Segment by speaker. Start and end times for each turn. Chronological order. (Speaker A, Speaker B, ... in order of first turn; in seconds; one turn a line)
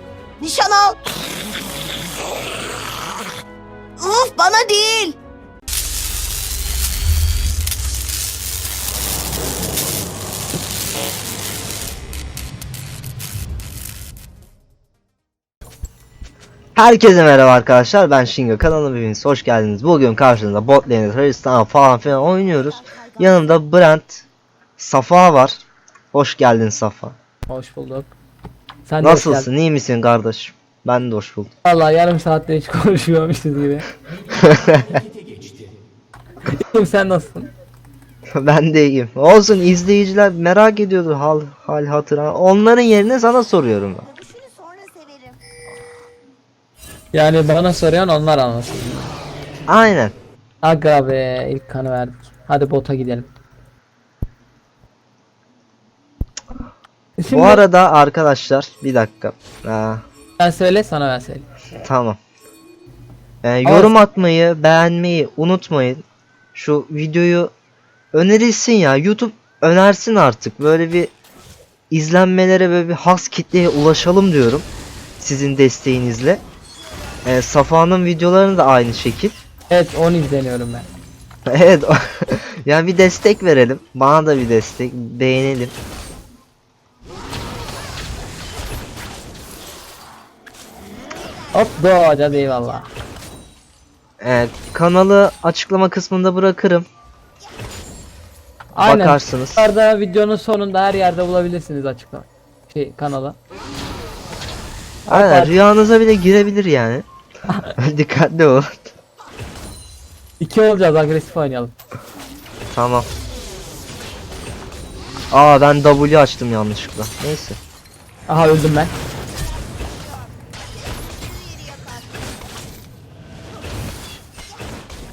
Speaker A: 0.4-1.0
Speaker A: 4.0-5.2
Speaker B: 16.8-24.2
Speaker B: 24.8-25.6
Speaker B: 26.1-27.1
Speaker C: 27.5-28.1
Speaker C: 28.9-29.5
Speaker B: 29.0-31.5
Speaker C: 31.6-33.9
Speaker B: 34.3-35.0
Speaker C: 36.5-37.5
Speaker B: 38.4-44.2
Speaker A: 44.3-45.2
Speaker C: 47.1-49.1
Speaker B: 49.7-50.1
Speaker C: 50.6-53.3
Speaker C: 57.2-57.6
Speaker B: 57.3-60.0
Speaker C: 60.4-61.5
Speaker B: 61.8-62.2
Speaker B: 63.4-66.0
Speaker C: 63.6-63.9
Speaker B: 66.5-67.5
Speaker B: 68.1-71.1
Speaker B: 71.9-74.7
Speaker B: 75.2-76.4
Speaker B: 77.2-79.3
Speaker C: 79.7-80.9
Speaker B: 81.5-85.7
Speaker C: 91.5-92.9
Speaker B: 94.2-96.9
Speaker C: 98.8-103.4
Speaker B: 98.8-99.7
Speaker C: 105.1-105.5
Speaker B: 105.1-107.0
Speaker B: 107.8-108.9
Speaker C: 110.4-111.7
Speaker B: 112.7-113.1
Speaker B: 115.3-117.6
Speaker C: 118.3-118.9